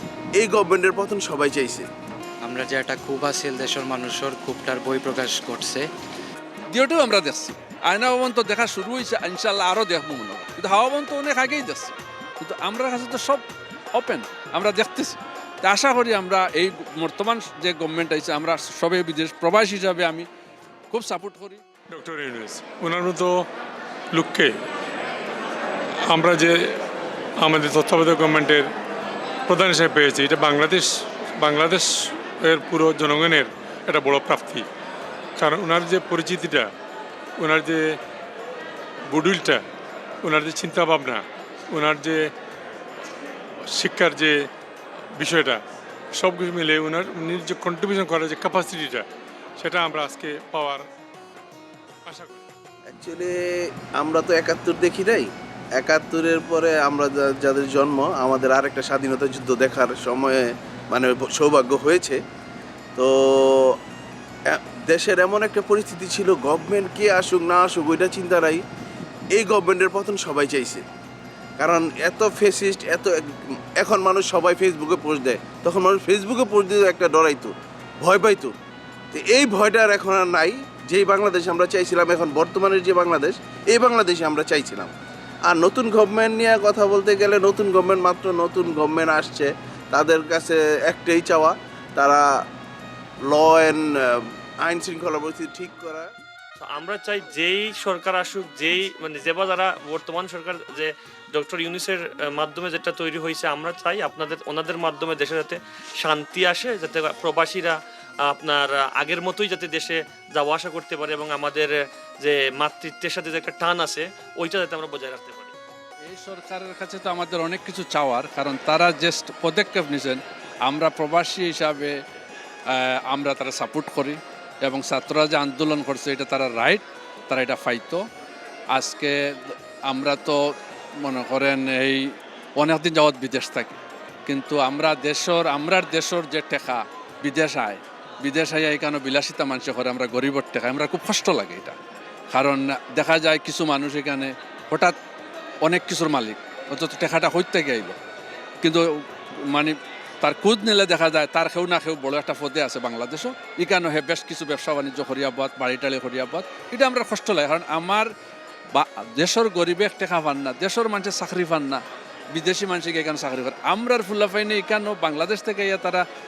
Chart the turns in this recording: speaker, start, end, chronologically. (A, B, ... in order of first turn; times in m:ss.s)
0:00.4-0:01.9 A
0:02.5-0:05.8 B
0:06.7-0:13.4 C
0:14.0-0:20.3 C
0:20.9-0:21.6 C
0:21.9-0:23.4 D
0:24.1-0:24.6 D
0:26.1-0:26.8 D
0:27.4-0:28.7 D
0:29.5-0:34.7 D
0:35.4-0:36.7 D
0:37.4-0:38.0 D
0:39.1-0:39.6 D
0:40.2-0:42.3 D
0:43.7-0:44.4 D
0:45.2-0:45.6 D
0:46.1-0:49.1 D
0:49.6-0:50.8 D
0:52.1-0:52.4 D
0:52.9-1:02.2 A
1:03.0-1:03.8 A
1:04.5-1:08.6 A
1:09.4-1:10.8 A
1:11.6-1:18.6 A
1:19.1-1:24.9 A
1:25.5-1:32.3 A
1:33.3-1:36.1 A
1:36.6-1:55.5 E
1:56.1-2:02.0 C
2:02.7-2:08.0 C
2:08.7-2:10.4 C
2:11.0-2:12.0 C
2:12.6-2:21.8 C
2:22.3-2:25.0 C
2:25.6-2:28.0 C
2:29.5-2:38.1 C
2:38.8-2:41.8 C
2:42.4-2:46.0 C